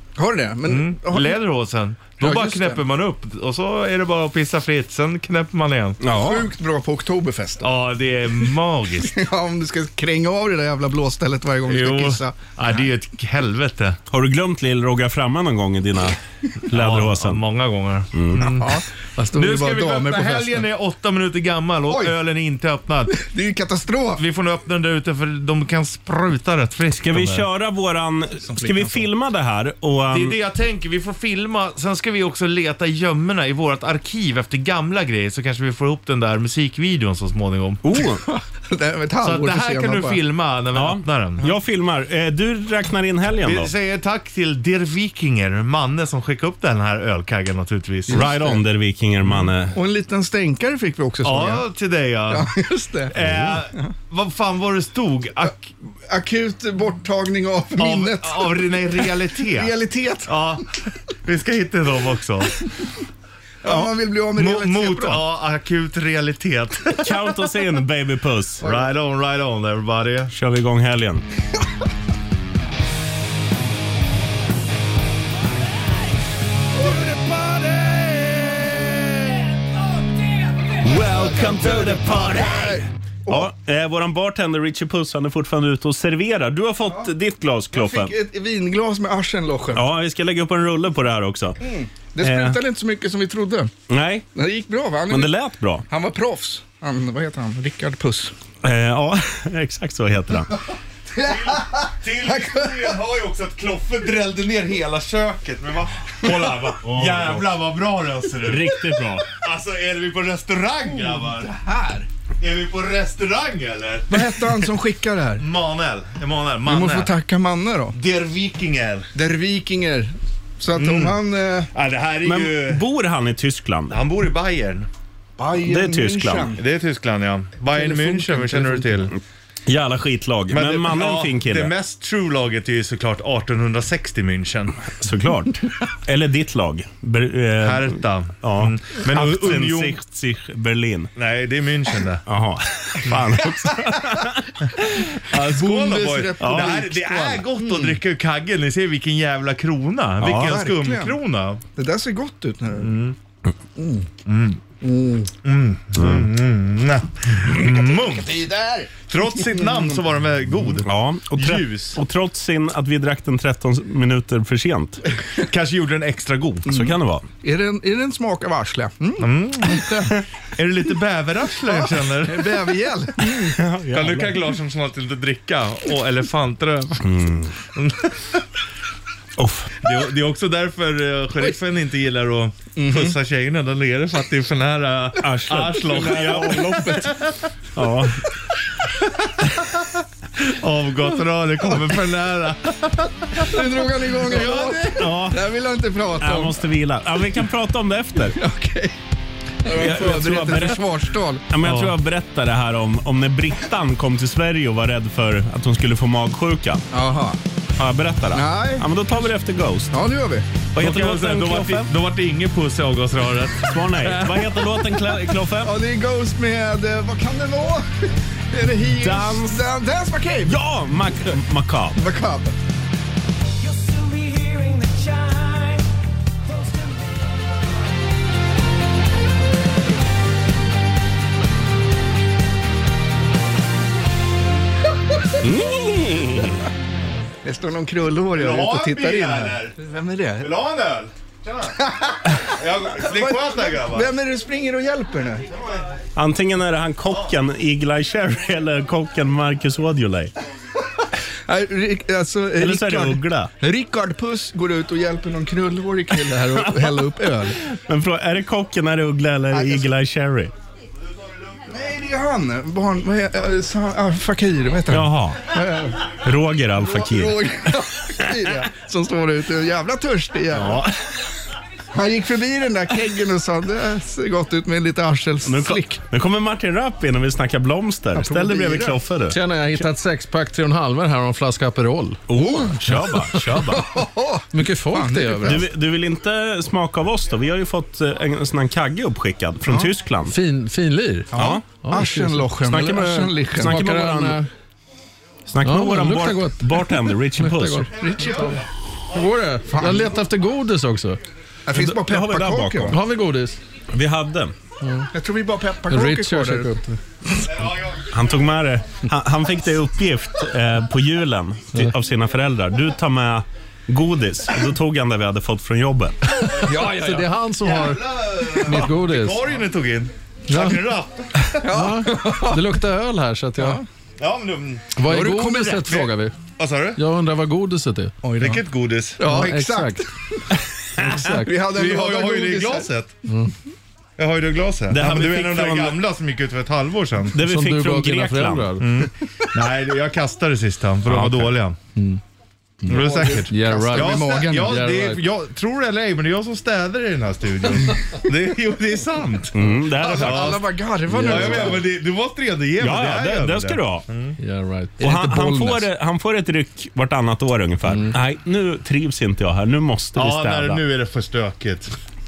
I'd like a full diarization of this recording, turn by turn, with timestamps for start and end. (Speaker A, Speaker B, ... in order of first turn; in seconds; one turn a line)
Speaker A: 0.2-1.4
Speaker B: 0.7-6.0
Speaker A: 2.2-2.8
Speaker C: 6.0-6.5
Speaker A: 6.1-7.7
Speaker B: 7.6-9.2
Speaker A: 9.0-12.8
Speaker B: 11.7-14.0
Speaker C: 14.1-17.4
Speaker B: 16.7-18.8
Speaker C: 18.1-18.4
Speaker A: 18.4-20.7
Speaker B: 19.3-23.2
Speaker A: 21.9-22.1
Speaker A: 23.1-24.2
Speaker B: 24.2-27.4
Speaker C: 27.0-30.4
Speaker A: 28.4-29.1
Speaker B: 30.1-37.8
Speaker C: 37.8-38.2
Speaker A: 38.3-40.2
Speaker B: 39.2-41.4
Speaker C: 40.7-43.7
Speaker B: 43.4-48.2
Speaker A: 48.1-48.6
Speaker C: 48.1-49.7
Speaker A: 49.7-51.7
Speaker B: 51.2-52.5
Speaker A: 52.3-53.1
Speaker B: 53.1-55.6
Speaker C: 53.2-53.5
Speaker A: 56.1-60.4
Speaker B: 57.8-59.7
Speaker B: 60.3-60.6
Speaker B: 61.2-62.7
Speaker A: 63.6-65.2
Speaker B: 63.6-67.4
Speaker C: 67.0-68.6
Speaker B: 68.6-70.3
Speaker C: 70.3-71.2
Speaker A: 76.7-78.9
Speaker A: 80.8-83.5
Speaker C: 81.0-82.7
Speaker C: 83.3-88.1
Speaker A: 87.7-89.9
Speaker C: 89.7-91.6
Speaker A: 91.6-93.7
Speaker C: 92.2-92.6
Speaker C: 93.9-94.2
Speaker A: 94.3-95.4
Speaker C: 95.1-95.8
Speaker A: 95.9-98.3
Speaker C: 98.6-100.6
Speaker A: 101.2-103.0
Speaker B: 101.2-111.5
Speaker C: 106.8-107.5
Speaker C: 108.4-109.3
Speaker A: 111.0-112.1
Speaker B: 112.4-114.3
Speaker A: 114.1-115.4
Speaker B: 115.4-117.1
Speaker A: 116.6-118.0
Speaker B: 117.9-119.1
Speaker A: 119.1-121.7
Speaker B: 120.7-121.2
Speaker B: 121.7-122.8
Speaker C: 122.2-124.0
Speaker B: 123.9-124.9
Speaker A: 125.4-126.6
Speaker C: 125.7-126.5
Speaker B: 126.5-129.1
Speaker A: 127.7-129.1
Speaker C: 129.7-131.7
Speaker B: 130.5-134.9
Speaker C: 135.0-141.1
Speaker B: 137.6-140.0
Speaker B: 141.2-142.2
Speaker C: 142.3-144.5
Speaker B: 143.1-143.4
Speaker A: 143.6-144.0
Speaker B: 145.3-151.6
Speaker A: 145.3-148.0
Speaker C: 150.2-150.5
Speaker A: 150.2-151.2
Speaker A: 151.7-152.9
Speaker B: 152.8-153.2
Speaker A: 153.8-154.1
Speaker B: 154.2-154.6
Speaker A: 154.8-155.3
Speaker B: 155.4-158.3
Speaker C: 155.9-156.3
Speaker A: 157.5-159.9
Speaker B: 159.1-162.0
Speaker C: 160.8-165.0
Speaker B: 165.4-166.7
Speaker A: 166.7-170.2
Speaker C: 166.7-167.2
Speaker B: 169.2-172.5
Speaker A: 171.6-173.6
Speaker C: 173.6-174.4
Speaker B: 173.9-177.1
Speaker C: 177.0-177.5
Speaker B: 177.7-178.4
Speaker C: 179.4-179.8
Speaker B: 179.8-187.4
Speaker A: 182.8-183.2
Speaker C: 185.2-187.1
Speaker A: 185.6-187.2
Speaker C: 187.7-188.3
Speaker B: 189.2-189.7
Speaker B: 190.4-195.1
Speaker A: 193.3-196.6
Speaker C: 195.0-195.4
Speaker C: 196.2-198.4
Speaker A: 198.2-199.0
Speaker A: 199.6-201.4
Speaker C: 199.7-200.9
Speaker C: 201.5-206.8
Speaker B: 201.6-201.9
Speaker A: 206.9-207.4
Speaker C: 207.8-209.9
Speaker A: 208.3-208.9
Speaker A: 209.9-210.5
Speaker C: 210.7-211.9
Speaker B: 210.8-214.4
Speaker C: 213.6-215.7
Speaker A: 215.6-220.6
Speaker C: 219.0-219.6
Speaker C: 220.4-222.0
Speaker A: 221.9-222.6
Speaker D: 223.6-225.8
Speaker D: 226.4-227.4
Speaker C: 235.4-236.7
Speaker A: 237.4-240.5
Speaker B: 238.3-239.7
Speaker B: 240.4-241.8
Speaker A: 241.8-245.5
Speaker B: 242.3-244.1
Speaker C: 246.2-250.3
Speaker A: 251.5-257.6
Speaker C: 252.6-253.5
Speaker C: 257.6-260.5
Speaker A: 259.5-259.9
Speaker A: 261.7-266.1
Speaker C: 264.9-265.5
Speaker C: 266.2-267.4
Speaker A: 266.8-270.9
Speaker A: 271.9-276.0
Speaker C: 275.4-279.8
Speaker A: 278.1-279.0
Speaker E: 279.3-282.3
Speaker C: 282.3-284.0
Speaker A: 282.4-285.7
Speaker E: 283.0-283.7
Speaker E: 284.5-285.6
Speaker C: 285.4-290.3
Speaker A: 289.6-289.9
Speaker E: 290.3-294.5
Speaker A: 291.3-293.8
Speaker C: 291.4-291.6
Speaker C: 292.6-294.4
Speaker C: 295.5-297.9
Speaker E: 295.6-296.8
Speaker E: 297.4-298.6
Speaker A: 297.9-298.6
Speaker B: 298.2-298.4
Speaker E: 299.1-301.2
Speaker A: 299.7-300.1
Speaker A: 301.7-303.0
Speaker C: 301.7-303.0
Speaker E: 302.9-303.6
Speaker C: 303.9-304.5
Speaker E: 304.8-305.1
Speaker A: 305.1-306.8
Speaker E: 305.9-307.0
Speaker B: 307.4-308.4
Speaker C: 308.1-316.5
Speaker E: 316.6-319.4
Speaker A: 316.6-317.2
Speaker B: 316.8-317.1
Speaker B: 317.6-321.6
Speaker E: 320.5-320.8
Speaker A: 321.6-322.7
Speaker E: 321.6-323.8
Speaker A: 323.6-323.8
Speaker B: 324.2-324.9
Speaker E: 324.9-326.4
Speaker A: 325.0-326.1
Speaker B: 326.6-327.0
Speaker E: 326.9-328.3
Speaker A: 328.2-328.6
Speaker B: 328.4-329.5
Speaker A: 329.2-330.4
Speaker E: 329.2-330.0
Speaker E: 331.0-331.5
Speaker A: 331.2-332.9
Speaker B: 331.6-333.1
Speaker E: 333.3-333.5
Speaker B: 334.2-337.3
Speaker C: 334.9-336.0
Speaker C: 337.3-338.8
Speaker E: 337.3-338.9
Speaker B: 338.8-341.8
Speaker E: 341.1-342.2
Speaker E: 342.8-345.2
Speaker A: 342.9-344.8
Speaker B: 342.9-354.4
Speaker C: 349.5-350.6
Speaker A: 350.0-351.9
Speaker E: 351.1-351.8
Speaker C: 352.8-354.0
Speaker E: 354.4-355.0
Speaker A: 355.0-355.9
Speaker C: 355.0-360.8
Speaker E: 357.9-358.1
Speaker B: 360.1-361.9